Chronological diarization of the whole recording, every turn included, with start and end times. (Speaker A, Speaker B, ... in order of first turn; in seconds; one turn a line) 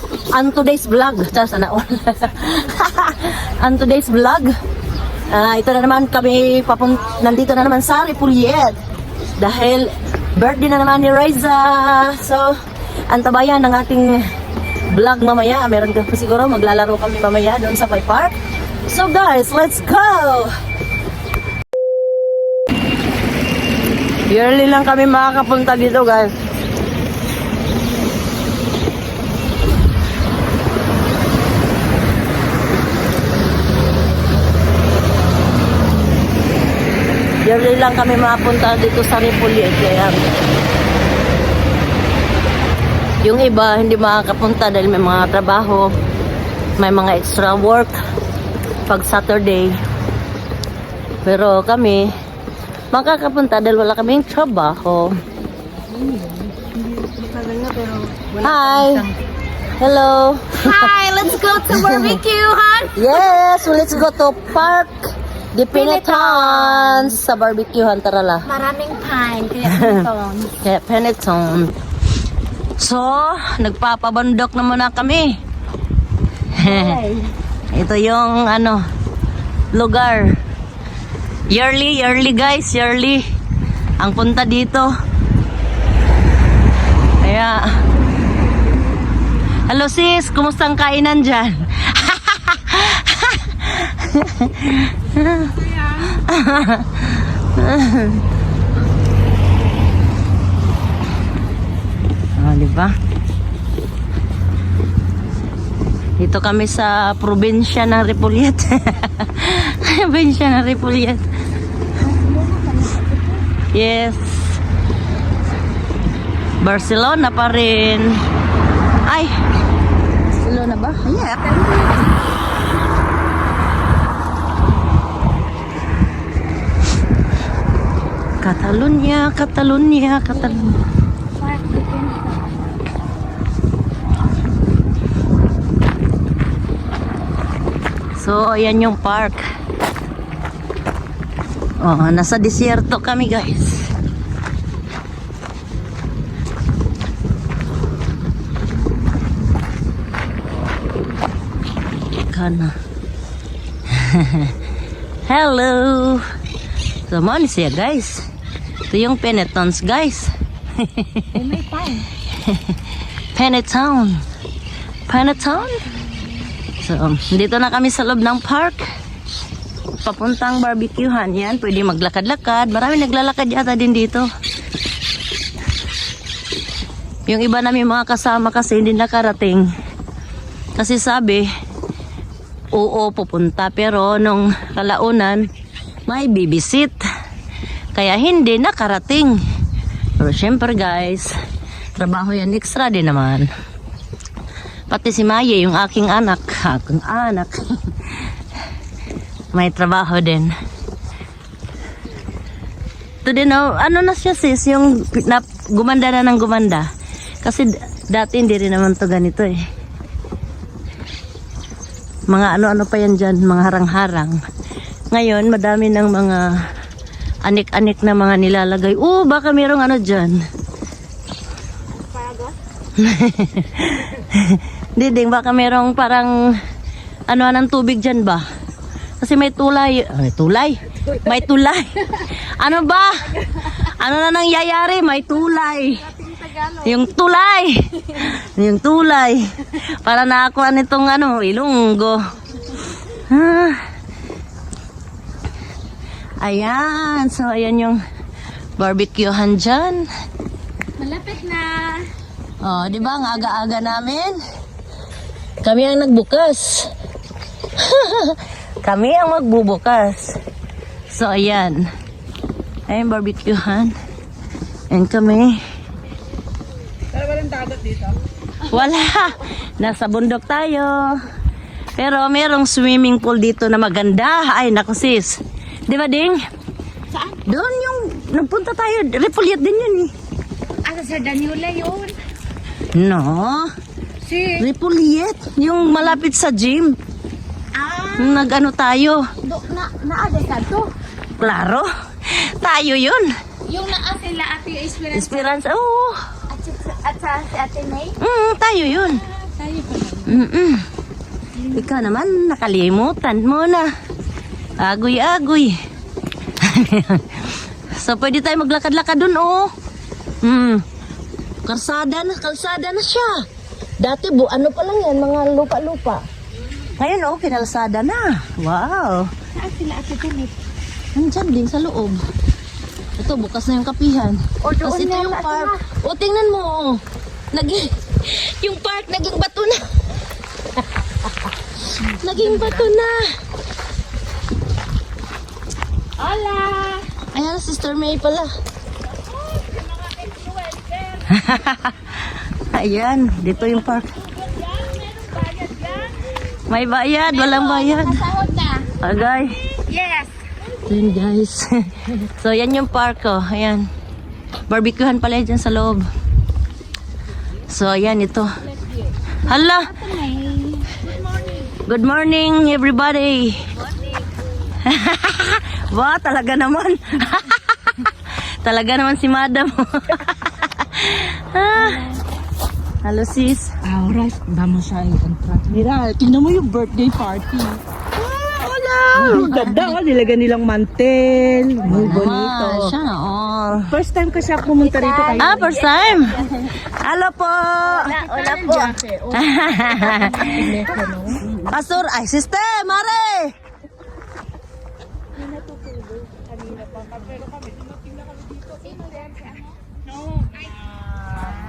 Speaker A: 0.3-4.5
Speaker A: 5.3-8.8
Speaker A: 9.4-12.6
Speaker A: 13.1-14.3
Speaker A: 14.9-18.3
Speaker A: 18.9-20.5
Speaker A: 24.3-26.3
Speaker A: 37.4-40.2
Speaker A: 43.2-45.9
Speaker A: 46.8-48.0
Speaker A: 48.9-49.8
Speaker A: 51.2-52.1
Speaker A: 52.9-55.2
Speaker B: 57.0-59.1
Speaker A: 58.4-59.1
Speaker A: 59.8-60.9
Speaker C: 60.6-63.0
Speaker A: 61.7-62.2
Speaker A: 62.9-68.5
Speaker C: 65.7-67.0
Speaker C: 68.5-70.5
Speaker A: 69.7-70.0
Speaker A: 70.6-71.7
Speaker A: 72.8-75.3
Speaker A: 76.5-77.0
Speaker B: 76.8-77.3
Speaker C: 76.8-77.1
Speaker A: 77.7-78.8
Speaker A: 79.7-80.4
Speaker A: 81.5-83.2
Speaker A: 84.0-84.9
Speaker A: 87.2-87.8
Speaker A: 89.7-98.2
Speaker A: 102.3-102.9
Speaker A: 106.2-111.2
Speaker C: 112.1-113.4
Speaker A: 113.7-114.6
Speaker A: 116.6-118.2
Speaker A: 119.0-119.3
Speaker A: 120.3-121.7
Speaker C: 121.5-122.1
Speaker A: 128.4-130.8
Speaker C: 130.4-130.7
Speaker C: 131.4-132.4
Speaker A: 138.2-139.4
Speaker A: 141.8-143.9
Speaker A: 152.2-152.8
Speaker A: 153.9-154.5
Speaker A: 155.2-156.2
Speaker A: 157.1-158.2
Speaker A: 158.9-161.4
Speaker C: 161.3-162.0
Speaker A: 162.4-162.8
Speaker A: 163.3-164.2
Speaker A: 165.1-165.8
Speaker A: 166.8-168.9
Speaker A: 170.0-174.3
Speaker A: 177.2-179.7
Speaker A: 180.8-181.5
Speaker A: 182.7-185.5
Speaker A: 186.1-187.0
Speaker A: 187.9-189.4
Speaker A: 190.2-191.3
Speaker A: 191.9-193.5
Speaker A: 194.9-198.2
Speaker A: 199.5-200.5
Speaker A: 203.2-206.9
Speaker A: 207.4-209.6
Speaker A: 212.3-214.4
Speaker A: 215.1-216.6
Speaker A: 217.4-220.4
Speaker B: 222.1-222.5
Speaker A: 222.9-226.3
Speaker A: 227.3-228.4
Speaker A: 229.2-236.1
Speaker B: 236.2-236.5
Speaker C: 236.4-236.7
Speaker A: 236.8-242.2
Speaker A: 243.1-243.8
Speaker A: 246.4-248.0
Speaker A: 248.8-250.1
Speaker C: 251.0-252.1
Speaker A: 252.6-254.4
Speaker A: 255.6-256.9
Speaker A: 257.8-260.4
Speaker A: 261.1-261.9
Speaker A: 262.9-263.9
Speaker A: 264.9-265.6
Speaker B: 267.3-268.0
Speaker A: 268.6-271.2
Speaker A: 271.9-276.4
Speaker A: 277.4-280.1
Speaker C: 280.8-282.2
Speaker A: 282.9-283.7
Speaker B: 284.3-284.6
Speaker A: 284.5-287.0
Speaker C: 287.8-288.2
Speaker A: 288.1-289.3
Speaker C: 289.4-290.9
Speaker A: 291.4-293.3
Speaker C: 293.7-295.5
Speaker A: 295.1-296.2
Speaker C: 296.5-298.1
Speaker A: 298.2-299.2
Speaker C: 299.6-300.2
Speaker A: 300.2-300.8
Speaker A: 301.7-303.9
Speaker A: 304.8-305.7
Speaker A: 306.6-309.7
Speaker A: 310.4-310.8
Speaker A: 311.6-313.4
Speaker A: 314.0-316.2
Speaker A: 317.0-319.3
Speaker C: 319.6-320.5
Speaker A: 321.1-322.2
Speaker A: 323.2-327.0
Speaker C: 324.6-325.8
Speaker A: 327.5-329.9
Speaker A: 331.8-333.3
Speaker B: 336.2-337.1
Speaker A: 337.3-338.5
Speaker B: 339.5-341.2
Speaker A: 341.3-344.1
Speaker B: 344.4-346.2
Speaker A: 346.7-348.3
Speaker C: 347.4-348.9
Speaker A: 349.0-349.6
Speaker C: 349.9-350.4
Speaker A: 350.7-353.9
Speaker A: 354.7-356.1
Speaker A: 357.7-358.5
Speaker A: 359.4-360.0
Speaker C: 359.9-361.2
Speaker A: 361.8-363.6
Speaker A: 364.8-372.1
Speaker A: 373.0-373.7
Speaker B: 373.8-382.9
Speaker A: 379.2-379.8
Speaker A: 381.9-383.9
Speaker B: 383.9-385.9
Speaker C: 384.8-386.0
Speaker A: 385.4-390.8
Speaker B: 387.9-391.5
Speaker C: 388.2-388.7
Speaker A: 391.5-393.5
Speaker B: 395.7-397.3
Speaker B: 398.9-399.5